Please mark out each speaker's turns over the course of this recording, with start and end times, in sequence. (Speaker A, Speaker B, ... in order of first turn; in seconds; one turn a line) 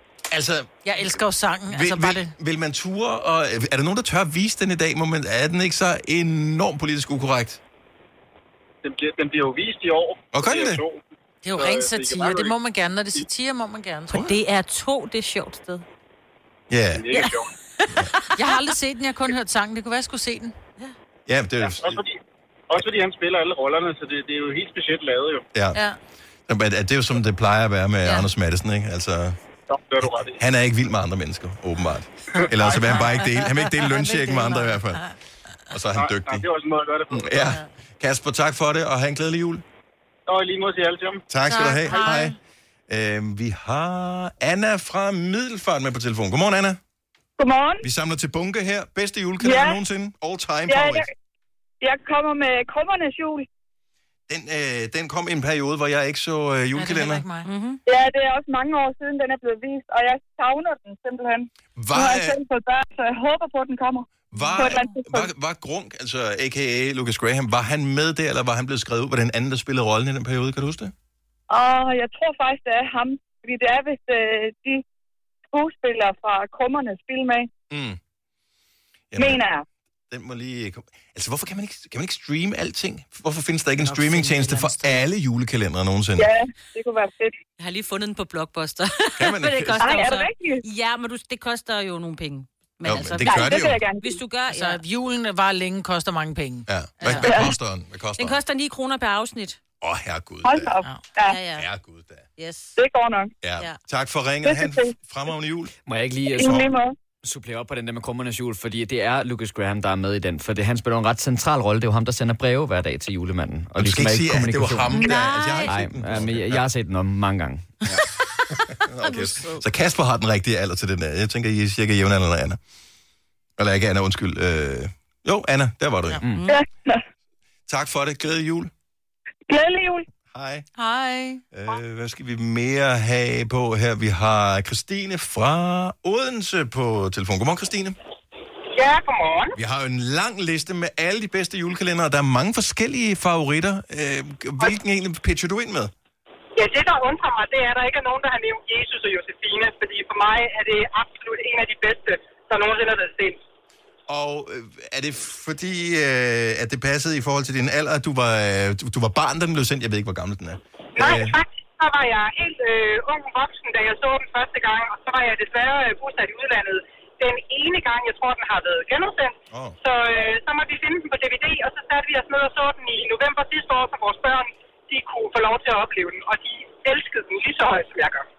Speaker A: 0.3-0.7
Speaker B: 0.8-2.3
Speaker A: 1.7-7.6
Speaker C: 8.8-11.0
Speaker A: 10.3-10.8
Speaker B: 11.4-14.2
Speaker C: 11.5-12.6
Speaker D: 14.1-15.8
Speaker A: 16.7-17.2
Speaker C: 16.9-17.5
Speaker B: 18.3-20.5
Speaker A: 21.3-22.0
Speaker C: 21.8-22.2
Speaker C: 22.7-25.4
Speaker A: 25.5-25.8
Speaker A: 26.5-29.4
Speaker C: 29.7-30.4
Speaker A: 30.3-35.1
Speaker B: 32.6-35.1
Speaker A: 35.7-36.4
Speaker C: 36.0-37.5
Speaker A: 37.1-39.6
Speaker C: 40.3-41.2
Speaker A: 41.3-42.4
Speaker B: 41.5-42.3
Speaker A: 42.9-46.8
Speaker E: 47.4-47.8
Speaker A: 47.8-51.0
Speaker E: 49.4-49.8
Speaker E: 50.7-51.0
Speaker E: 51.8-53.5
Speaker A: 54.3-57.2
Speaker B: 56.8-57.5
Speaker D: 57.4-57.8
Speaker E: 57.9-65.3
Speaker A: 61.8-62.4
Speaker A: 64.3-70.9
Speaker E: 71.5-74.8
Speaker E: 75.5-77.5
Speaker A: 77.7-78.0
Speaker A: 79.1-79.4
Speaker E: 79.2-79.6
Speaker A: 80.1-86.3
Speaker B: 83.8-85.0
Speaker E: 86.2-87.3
Speaker D: 87.6-94.8
Speaker A: 89.2-90.0
Speaker E: 89.8-90.6
Speaker A: 92.8-93.8
Speaker E: 93.2-94.2
Speaker B: 94.5-97.4
Speaker A: 96.7-98.4
Speaker E: 97.2-97.5
Speaker D: 98.2-99.6
Speaker A: 99.8-100.8
Speaker E: 100.4-101.4
Speaker D: 101.2-101.7
Speaker A: 101.5-102.2
Speaker D: 102.4-102.8
Speaker E: 102.8-103.3
Speaker A: 103.4-105.7
Speaker E: 104.4-104.9
Speaker F: 105.9-106.6
Speaker E: 106.3-106.9
Speaker F: 107.2-115.0
Speaker A: 113.8-116.6
Speaker D: 114.9-115.8
Speaker F: 115.7-117.8
Speaker A: 118.8-122.6
Speaker D: 119.0-119.6
Speaker A: 123.6-126.2
Speaker D: 126.3-126.6
Speaker E: 126.5-127.0
Speaker A: 127.7-128.7
Speaker E: 129.5-130.1
Speaker A: 130.3-130.7
Speaker B: 130.7-131.4
Speaker A: 131.5-137.9
Speaker G: 138.7-139.6
Speaker A: 139.6-145.9
Speaker G: 146.6-153.4
Speaker A: 154.1-161.4
Speaker G: 161.0-178.2
Speaker A: 169.5-169.8